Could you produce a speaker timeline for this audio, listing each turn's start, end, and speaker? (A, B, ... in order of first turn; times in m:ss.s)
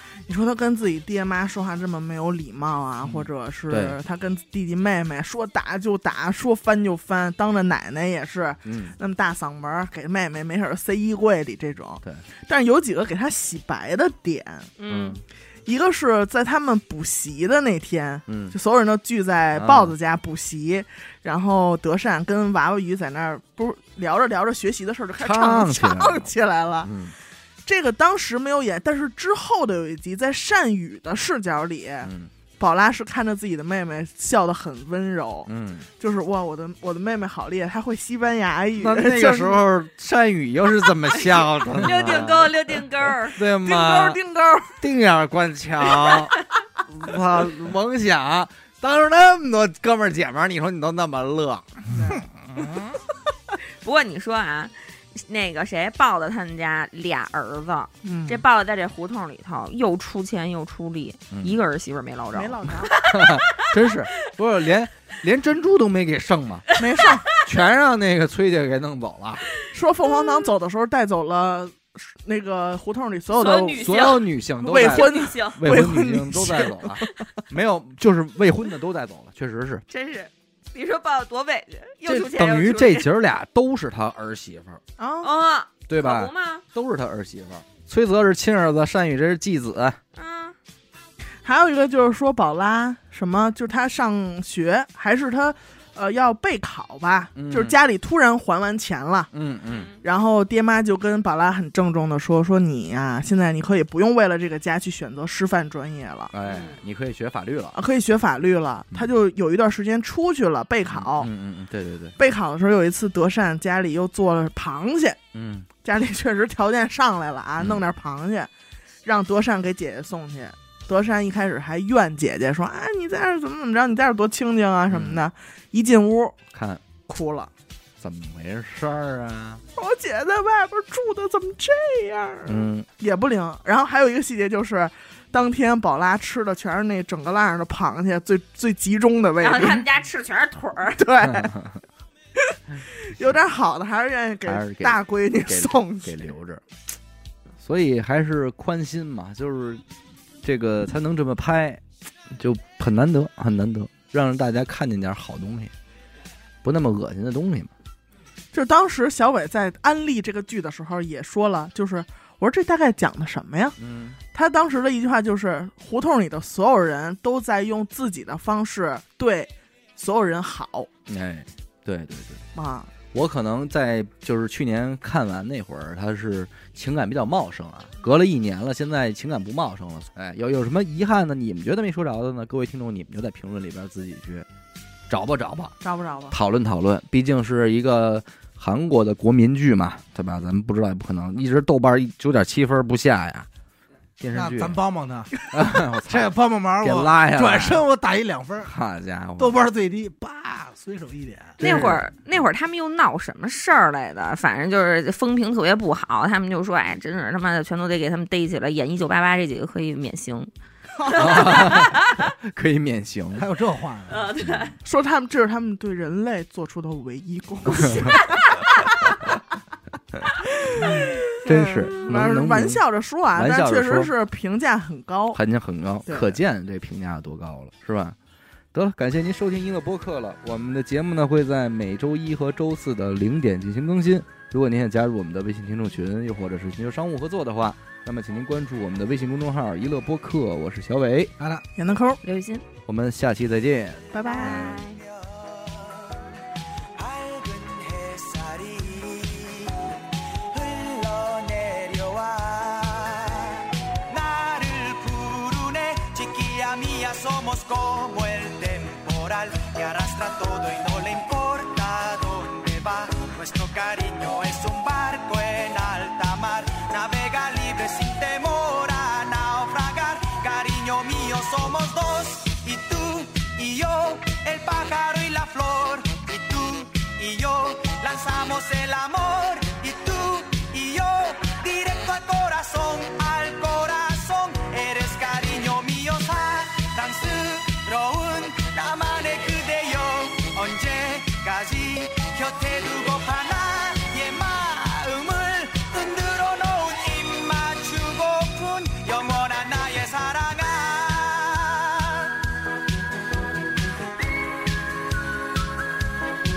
0:00.3-0:14.7 A
0:03.0-0:04.0 B
0:08.6-0:09.0 B
0:14.8-0:15.2 C
0:14.9-0:15.2 B
0:15.7-0:26.9 A
0:18.3-0:18.6 B
0:19.6-0:19.9 B
0:25.2-0:26.3 B
0:26.8-0:27.1 B
0:27.7-0:39.6 A
0:32.0-0:32.3 B
0:35.5-0:35.9 B
0:38.8-0:44.2 B
0:41.7-0:43.4 C
0:43.6-0:44.8 A
0:44.8-0:53.0 B
0:51.9-0:52.3 A
0:53.8-1:03.8 C
0:58.0-0:58.4 A
1:01.3-1:01.6 B
1:02.3-1:03.0 A
1:03.0-1:06.6 B
1:06.8-1:07.1 C
1:06.8-1:07.3 A
1:07.4-1:09.4 B
1:09.7-1:17.2 A
1:13.3-1:15.6 C
1:13.8-1:19.8 B
1:19.9-1:23.1 C
1:22.0-1:24.8 B
1:25.0-1:25.3 A
1:25.2-1:26.6 C
1:25.9-1:30.0 B
1:30.2-1:30.6 C
1:31.4-1:39.3 A
1:37.4-1:37.8 B
1:39.3-1:39.9 B
1:39.7-1:40.0 C
1:40.0-1:46.3 A
1:46.3-1:47.8 B
1:46.4-1:46.8 C
1:47.7-1:51.3 A
1:50.9-1:52.2 B
1:52.2-1:55.2 A
1:55.3-1:55.7 B
1:55.8-1:58.5 A
1:59.0-2:06.4 A
2:04.9-2:05.2 B
2:06.5-2:06.8 B
2:07.1-2:07.5 A
2:08.0-2:09.6 B
2:09.8-2:19.9 A
2:12.5-2:12.9 B
2:19.4-2:21.0 C
2:21.0-2:21.5 A
2:21.3-2:21.8 B
2:22.4-2:26.2 A
2:24.5-2:26.6 B
2:27.6-2:29.8 B
2:30.4-2:35.7 B
2:36.6-2:37.7 B
2:38.5-2:43.8 A
2:43.8-2:44.2 B
2:44.3-2:50.9 A
2:51.1-2:52.4 B
2:52.6-2:52.9 A
2:53.1-3:04.5 B
3:05.1-3:05.7 B
3:05.8-3:06.4 A
3:06.3-3:13.5 B
3:14.2-3:14.8 B
3:14.3-3:15.5 D
3:15.5-3:17.8 B
3:16.1-3:18.7 D
3:18.6-3:19.6 B
3:19.4-3:21.6 D
3:21.6-3:22.1 B
3:21.6-3:30.5 C
3:31.0-3:31.7 A
3:31.0-3:32.3 C
3:31.1-3:33.5 B
3:33.4-3:34.5 D
3:34.1-3:34.8 C
3:34.4-3:34.7 B
3:34.8-3:38.4 A
3:37.8-3:39.1 C
3:40.2-3:40.9 B
3:40.4-3:45.4 A
3:41.4-3:44.1 B
3:45.3-3:48.2 B
3:46.1-3:46.4 A
3:48.7-4:01.3 B
4:01.4-4:01.6 D
4:01.8-4:02.2 A
4:02.2-4:02.6 C
4:02.9-4:04.1 B
4:04.1-4:04.8 A
4:04.2-4:05.0 C
4:04.3-4:06.4 E
4:06.9-5:02.4 E